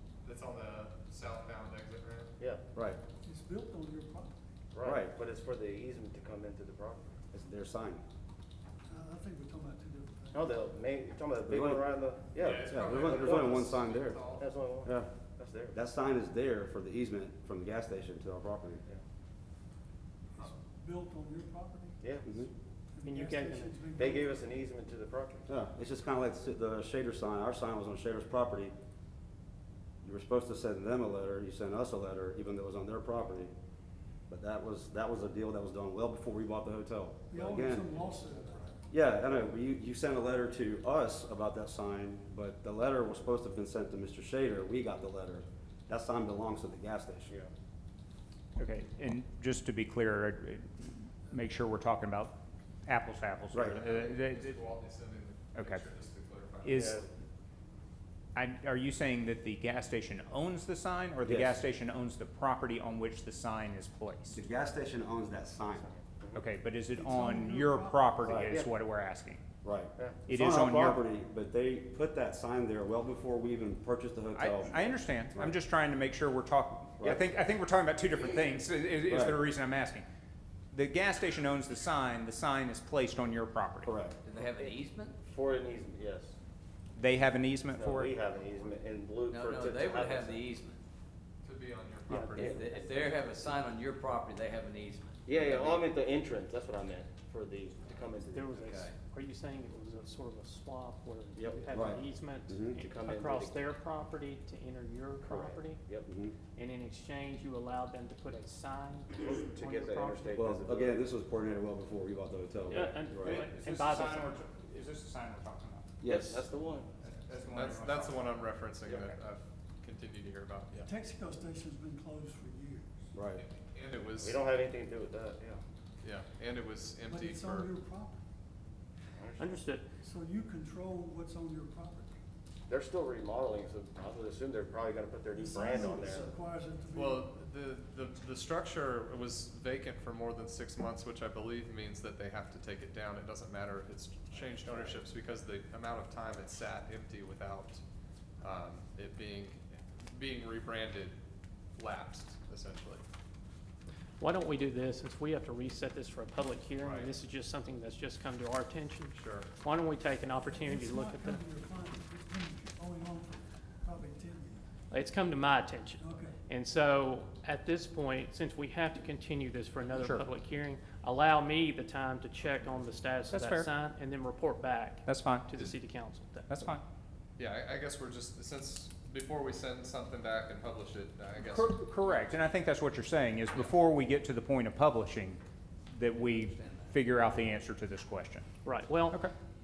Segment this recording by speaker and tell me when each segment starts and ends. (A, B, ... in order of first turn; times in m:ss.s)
0:00.2-0:02.3 A
0:02.4-0:02.6 B
0:02.8-0:03.0 C
0:03.2-0:04.4 D
0:04.7-0:07.2 B
0:04.8-0:05.1 C
0:07.3-0:08.0 C
0:08.9-0:10.6 D
0:10.3-0:13.6 B
0:11.5-0:11.8 C
0:12.4-0:14.5 A
0:12.7-0:14.2 C
0:14.4-0:15.8 B
0:14.8-0:15.1 C
0:15.7-0:18.8 C
0:20.4-0:22.0 D
0:22.0-0:22.4 B
0:22.9-0:24.4 D
0:23.0-0:23.8 E
0:24.0-0:25.5 B
0:25.5-0:28.7 C
0:30.0-0:33.5 C
0:34.3-0:37.9 C
0:37.3-0:38.8 D
0:38.0-0:38.5 A
0:38.9-0:47.3 C
0:48.6-0:54.6 F
0:53.5-0:53.8 C
0:53.7-0:56.9 A
0:55.6-0:55.8 F
0:56.6-0:57.0 F
0:56.7-0:57.1 B
0:58.4-1:04.4 F
1:01.2-1:01.6 C
1:04.3-1:05.9 C
1:05.8-1:06.4 B
1:06.3-1:09.4 F
1:06.9-1:08.4 D
1:08.2-1:08.6 C
1:08.4-1:08.7 B
1:09.6-1:14.8 C
1:10.3-1:11.0 F
1:14.4-1:20.0 F
1:17.0-1:17.3 C
1:19.1-1:19.4 C
1:20.7-1:23.9 F
1:23.8-1:24.2 C
1:24.2-1:25.2 G
1:24.5-1:26.4 B
1:27.0-1:28.1 F
1:27.7-1:30.5 B
1:29.3-1:30.8 G
1:31.4-1:32.7 A
1:32.1-1:32.5 E
1:32.4-1:35.8 G
1:35.3-1:38.6 B
1:38.3-1:45.8 E
1:38.6-1:38.9 G
1:41.4-1:41.7 B
1:41.7-1:42.8 C
1:42.8-1:43.6 B
1:45.2-1:46.1 B
1:46.1-1:46.4 C
1:46.6-1:50.4 E
1:49.2-1:51.0 B
1:50.4-1:53.4 C
1:52.7-1:54.3 E
1:53.2-1:56.0 F
1:56.0-1:56.4 C
1:56.0-1:56.9 B
1:57.0-1:58.3 F
1:57.3-2:00.9 A
2:00.8-2:03.1 D
2:03.1-2:03.4 C
2:03.4-2:04.4 A
2:04.2-2:05.6 B
2:06.0-2:07.7 A
2:07.1-2:08.2 D
2:09.2-2:09.6 B
2:09.4-2:09.9 E
2:10.0-2:12.1 D
2:12.7-2:16.3 B
2:15.3-2:17.4 D
2:16.9-2:27.8 A
2:24.3-2:25.0 B
2:28.4-2:31.2 A
2:31.8-2:33.0 A
2:34.2-2:41.4 E
2:36.8-2:37.1 A
2:39.2-2:39.5 A
2:40.5-2:44.7 D
2:44.9-2:56.8 E
2:46.0-2:46.4 D
2:49.9-2:50.2 F
2:53.3-2:53.7 F
2:55.1-2:55.5 F
2:56.5-2:56.8 F
2:57.4-3:01.8 A
3:01.4-3:05.4 F
3:05.9-3:08.5 F
3:06.2-3:07.3 G
3:08.6-3:09.2 E